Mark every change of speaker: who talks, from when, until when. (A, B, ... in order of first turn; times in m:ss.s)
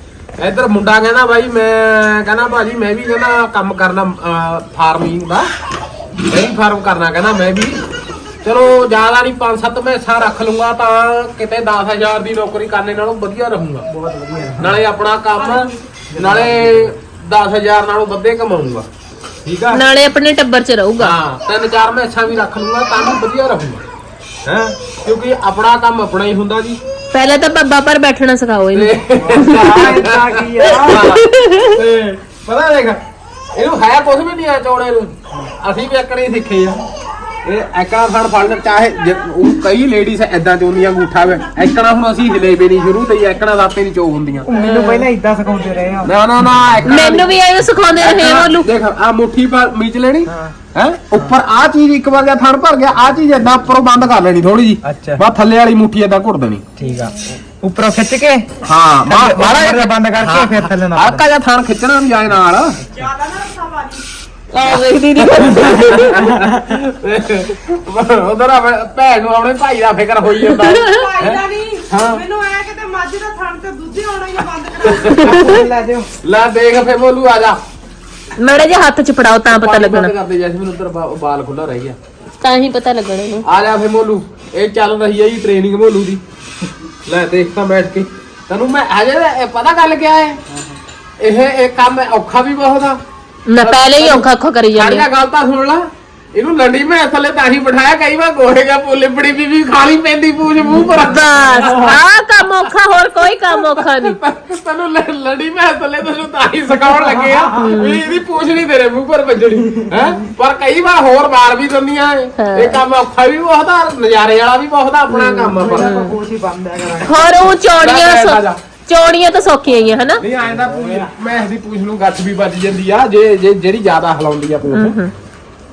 0:00.4-0:05.5 A
0:06.2-0:07.8 A
0:08.4-0:13.9 A
0:13.9-0:14.7 B
0:14.5-0:18.9 A
0:16.2-0:16.7 B
0:19.4-0:19.8 A
0:19.7-0:21.1 C
0:21.0-0:23.8 A
0:24.4-0:26.8 A
0:27.1-0:29.9 C
0:28.7-0:33.0 A
0:29.3-0:31.1 B
0:30.6-0:31.7 C
0:33.6-0:36.8 A
0:37.4-0:44.5 A
0:44.4-0:46.1 B
0:44.6-0:45.1 C
0:46.0-0:47.3 A
0:46.8-0:48.7 C
0:48.0-0:56.6 A
0:50.3-0:50.6 B
0:51.1-0:51.4 B
0:54.8-0:55.2 B
0:56.8-0:58.5 B
0:58.6-1:02.8 A
0:59.0-1:01.3 B
1:02.9-1:04.0 D
1:04.5-1:06.3 C
1:05.4-1:12.2 A
1:10.4-1:11.1 C
1:11.0-1:15.4 D
1:14.8-1:15.4 A
1:15.0-1:15.6 C
1:15.5-1:16.0 B
1:16.2-1:17.6 A
1:18.4-1:20.1 C
1:19.5-1:22.0 A
1:22.4-1:23.5 C
1:23.4-1:26.2 A
1:27.1-1:30.4 A
1:31.2-1:33.0 A
1:33.5-1:35.1 C
1:33.6-1:42.0 A
1:40.8-1:44.2 C
1:43.5-1:56.1 A
1:47.1-1:47.7 B
1:47.5-1:48.0 C
1:52.4-1:52.8 C
1:55.1-1:56.2 C
1:55.6-1:57.5 B
1:57.0-2:00.2 C
1:57.8-1:58.6 A
2:00.2-2:04.9 A
2:00.7-2:01.1 B
2:04.7-2:05.1 C